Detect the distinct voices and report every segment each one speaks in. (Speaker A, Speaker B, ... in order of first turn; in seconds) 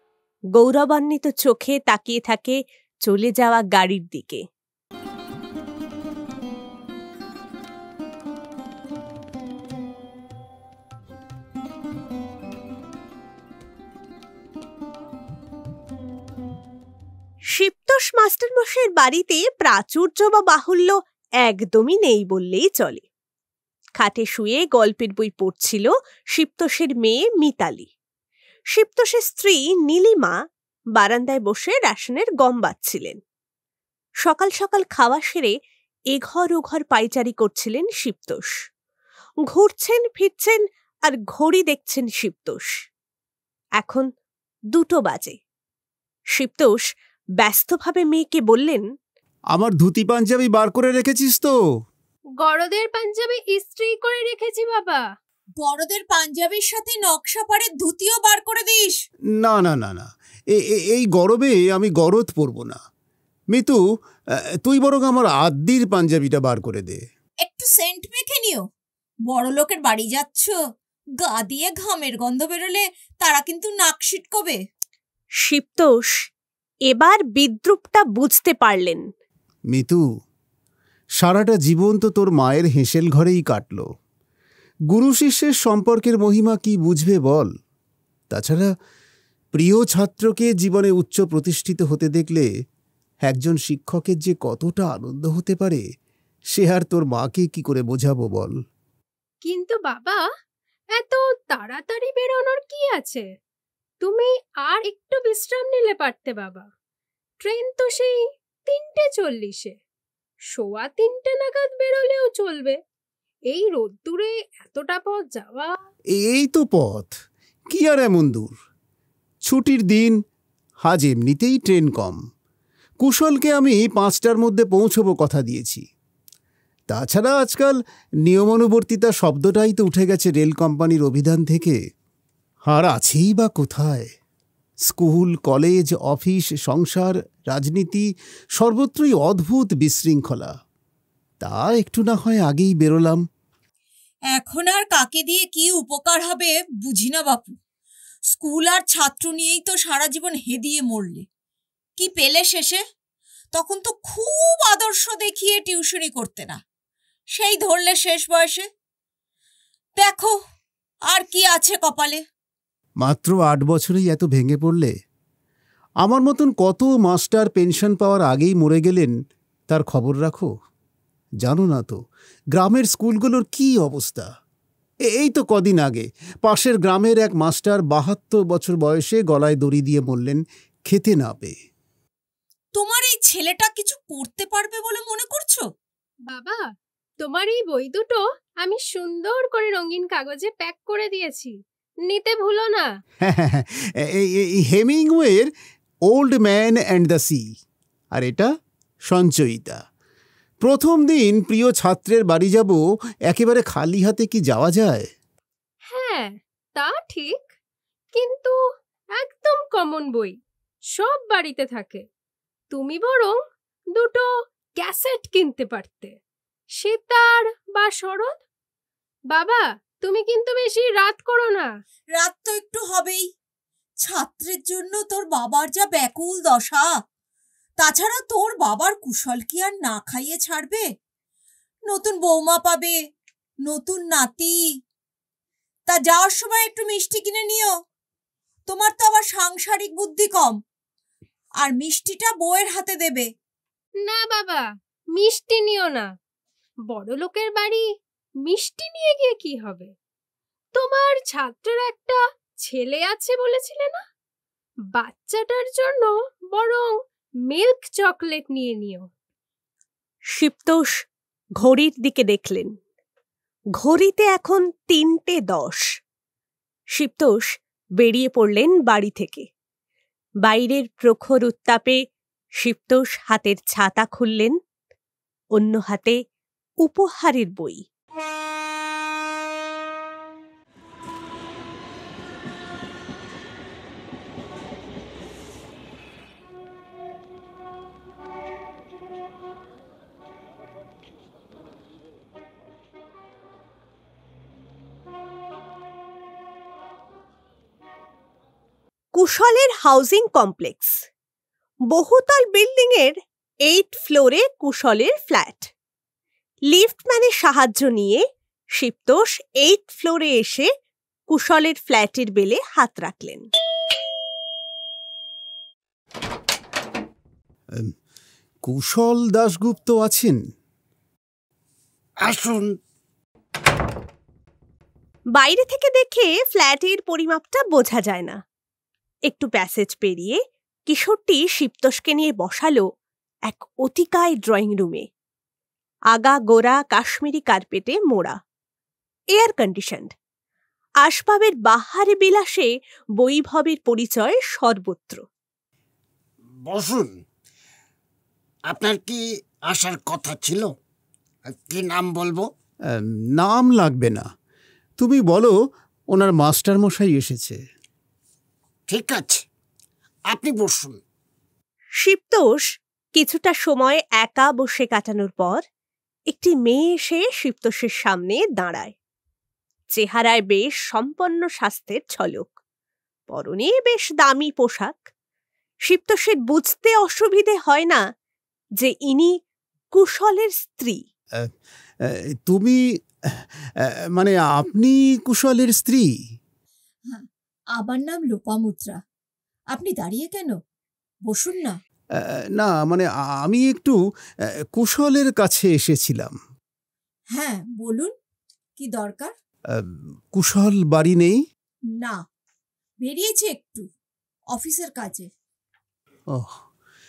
Speaker A: 0.6-4.4, 17.5-23.0, 24.0-27.9, 28.8-30.3, 30.9-33.2, 34.2-35.5, 36.1-38.5, 39.5-42.7, 43.8-44.1, 44.7-45.4, 46.4-46.8, 47.4-48.8, 75.4-76.1, 76.9-79.0, 260.4-260.9, 261.6-262.7, 263.8-265.8, 266.9-267.4, 268.0-269.4, 270.4-272.0, 272.6-274.5, 275.6-276.1, 276.8-277.8, 299.1-300.9, 301.9-303.1, 303.7-305.7, 306.7-308.2, 308.8-310.7, 311.3-313.5, 325.3-328.4, 329.3-332.8, 333.5-335.0, 336.1-338.3, 339.4-340.1, 341.0-345.2, 362.0-362.6, 363.1-365.6, 366.3-368.9, 369.9-372.6, 373.3-375.0, 375.9-378.0, 378.8-379.3, 379.9-381.0
Speaker B: 49.5-51.5, 59.4-62.8, 63.5-63.8, 64.6-67.0, 79.7-80.0, 81.2-83.8, 84.9-87.5, 88.3-88.6, 89.5-92.5, 93.2-95.8, 96.5-98.5, 116.1-117.1, 117.7-118.5, 119.4-120.2, 120.8-122.2, 123.0-125.8, 126.9-131.8, 132.7-134.1, 134.9-138.0, 138.6-140.5, 141.4-143.2, 163.0-164.9, 166.0-169.1, 169.7-170.5, 171.4-172.0, 172.5-174.3, 175.1-181.5, 193.2-195.5, 196.1-197.4, 198.1-198.5, 199.1-199.8, 200.6-205.1, 318.6-320.4, 352.9-354.2, 355.0-355.5, 356.1-357.6, 382.0-382.8, 383.3-386.1, 392.2-393.9, 394.7-396.3, 399.8-401.4
Speaker C: 52.4-55.0, 99.4-100.2, 101.0-103.2, 104.0-106.6, 107.4-108.2, 108.7-109.7, 110.5-112.8, 113.5-115.7, 186.3-186.6, 187.2-191.5, 192.1-192.8, 205.9-207.4, 208.1-208.5, 209.2-210.3, 211.0-212.0, 212.7-213.3, 213.9-214.2, 214.8-216.1, 216.8-218.4, 219.3-221.7, 244.0-244.6, 245.2-246.1, 246.9-247.8, 248.4-249.9, 250.8-254.0, 255.0-256.9, 257.5-259.1
Speaker D: 55.6-59.0, 67.4-68.7, 69.3-70.6, 71.2-74.6, 144.3-147.6, 148.3-151.2, 152.0-152.8, 153.5-156.6, 157.3-158.7, 160.0-160.4, 161.1-162.2, 182.7-185.7, 222.1-223.3, 224.0-226.9, 227.8-230.9, 231.8-233.0, 233.6-234.7, 235.9-237.7, 238.7-240.6, 241.6-243.3, 387.1-389.0, 389.7-390.6, 391.2-391.7, 397.3-398.1, 398.8-399.3, 401.9-402.2, 403.0-403.9, 404.5-405.3
Speaker E: 322.2-322.8, 346.6-347.2, 348.7-350.7, 351.5-352.5, 358.9-359.4, 360.3-361.0